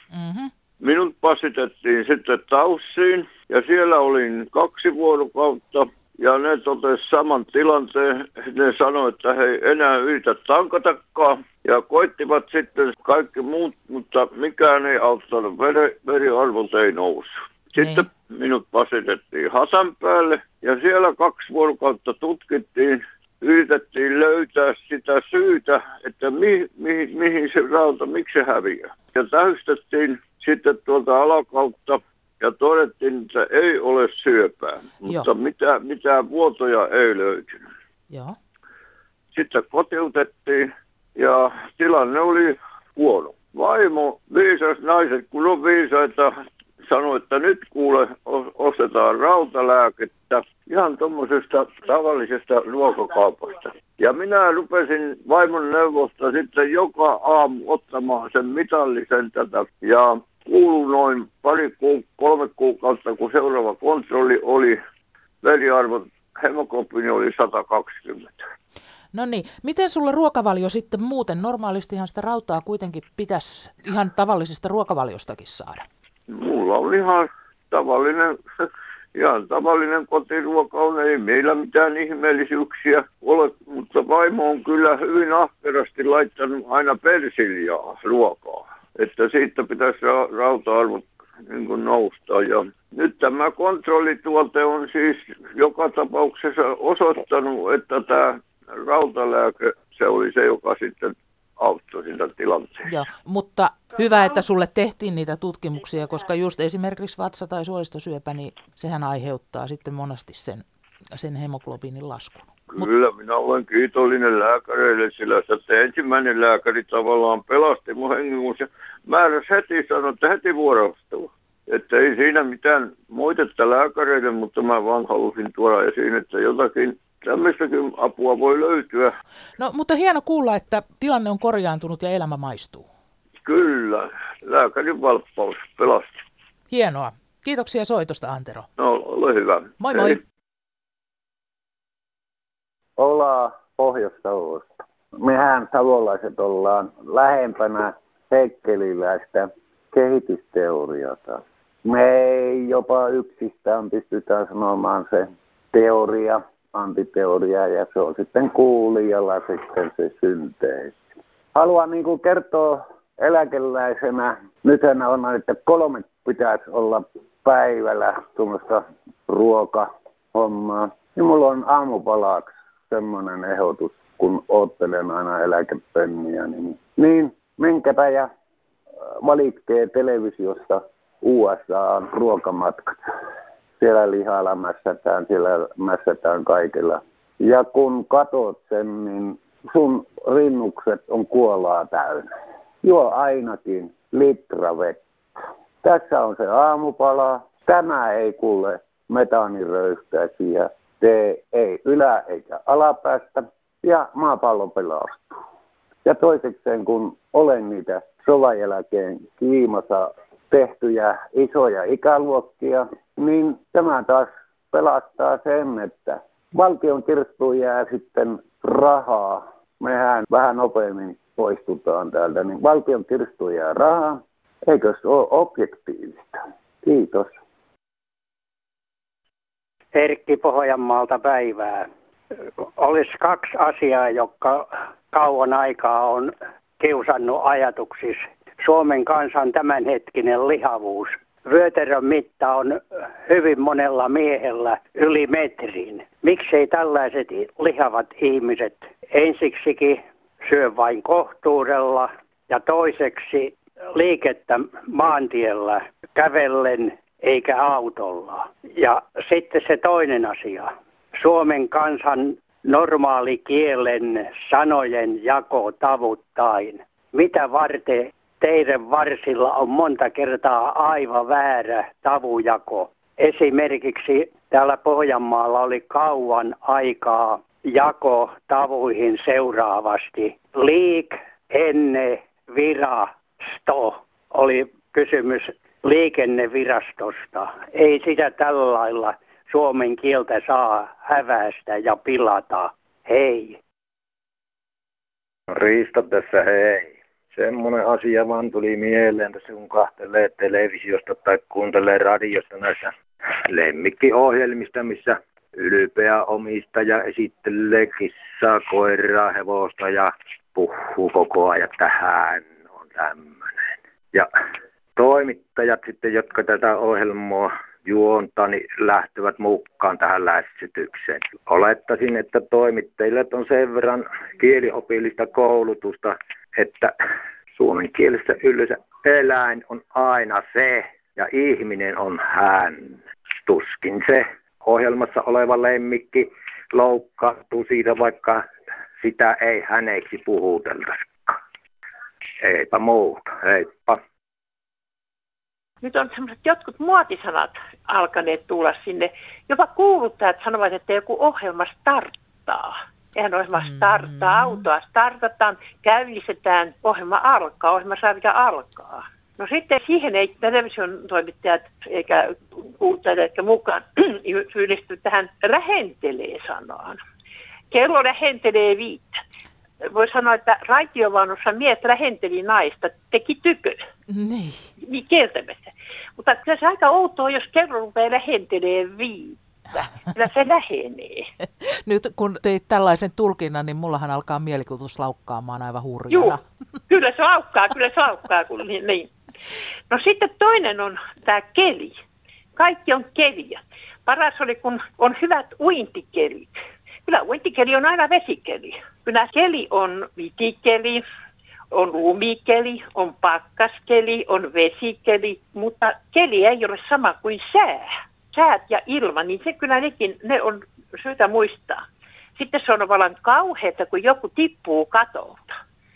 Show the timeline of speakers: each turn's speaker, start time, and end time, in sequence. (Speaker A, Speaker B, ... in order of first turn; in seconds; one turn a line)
Speaker A: 0.1-0.5
Speaker B: 0.8-37.6
Speaker A: 17.8-18.1
Speaker A: 38.1-38.4
Speaker B: 39.3-64.8
Speaker B: 65.4-68.5
Speaker A: 69.1-75.8
Speaker B: 76.3-102.9
Speaker A: 102.9-110.6
Speaker A: 111.2-112.9
Speaker B: 112.7-129.2
Speaker A: 129.6-132.9
Speaker B: 133.4-136.2
Speaker A: 136.7-138.7
Speaker B: 138.8-140.2
Speaker A: 139.8-140.2
Speaker C: 143.0-161.0
Speaker C: 161.5-178.3
Speaker C: 179.2-183.0
Speaker C: 183.8-192.3
Speaker C: 192.8-195.0
Speaker C: 195.8-205.3
Speaker C: 206.0-227.4
Speaker D: 229.9-231.9
Speaker D: 232.4-293.6
Speaker E: 295.5-314.3
Speaker E: 315.0-326.9
Speaker E: 327.6-341.4
Speaker E: 342.4-344.0
Speaker F: 345.8-367.0
Speaker A: 353.6-354.6
Speaker F: 367.7-369.2
Speaker F: 369.8-373.8
Speaker A: 374.1-374.7
Speaker F: 374.8-381.3
Speaker A: 381.7-386.4
Speaker F: 386.1-386.4
Speaker F: 386.9-389.1
Speaker F: 389.9-391.9
Speaker F: 392.6-396.5
Speaker F: 397.1-401.0
Speaker F: 401.7-411.8
Speaker F: 412.4-415.5